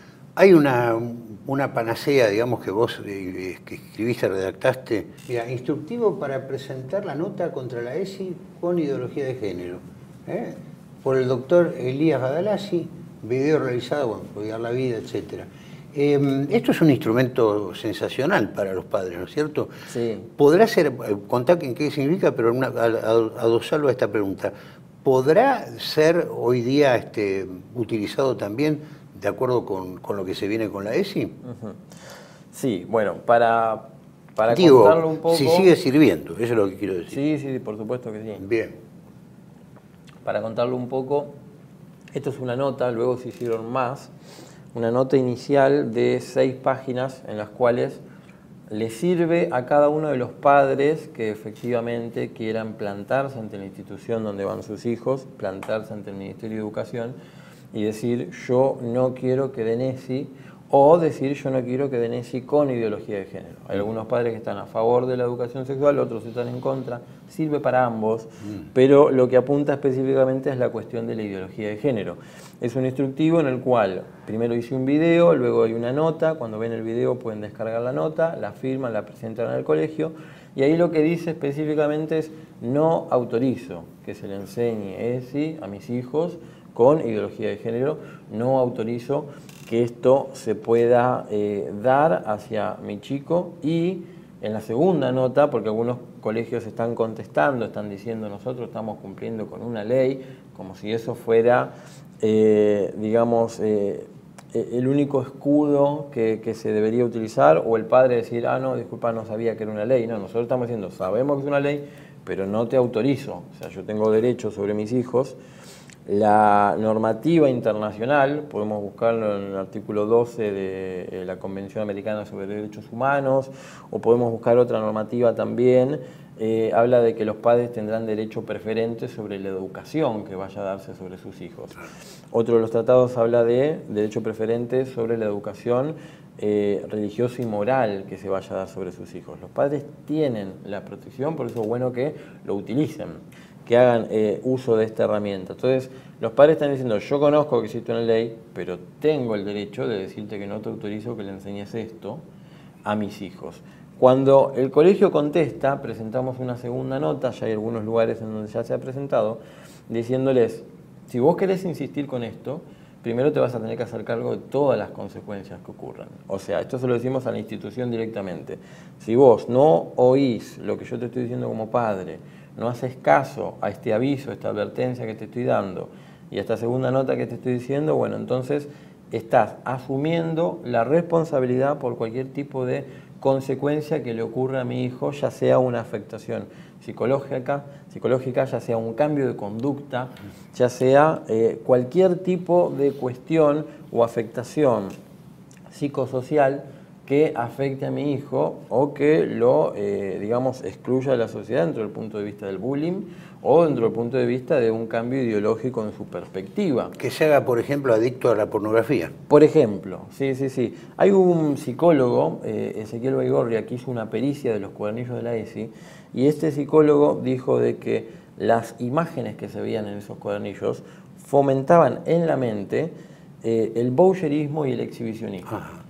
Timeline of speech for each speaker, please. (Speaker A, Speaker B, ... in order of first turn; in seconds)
Speaker A: 0.3-19.7, 20.3-24.5, 25.0-31.4, 34.5-37.2, 38.4-38.8, 207.0-209.1
Speaker B: 19.9-20.3, 31.4-31.8, 32.5-35.7, 37.1-38.5, 40.2-41.3, 42.1-44.1, 44.7-48.0, 48.7-57.1, 57.7-115.4, 116.0-152.2, 152.8-194.9, 195.7-207.0, 209.3-225.6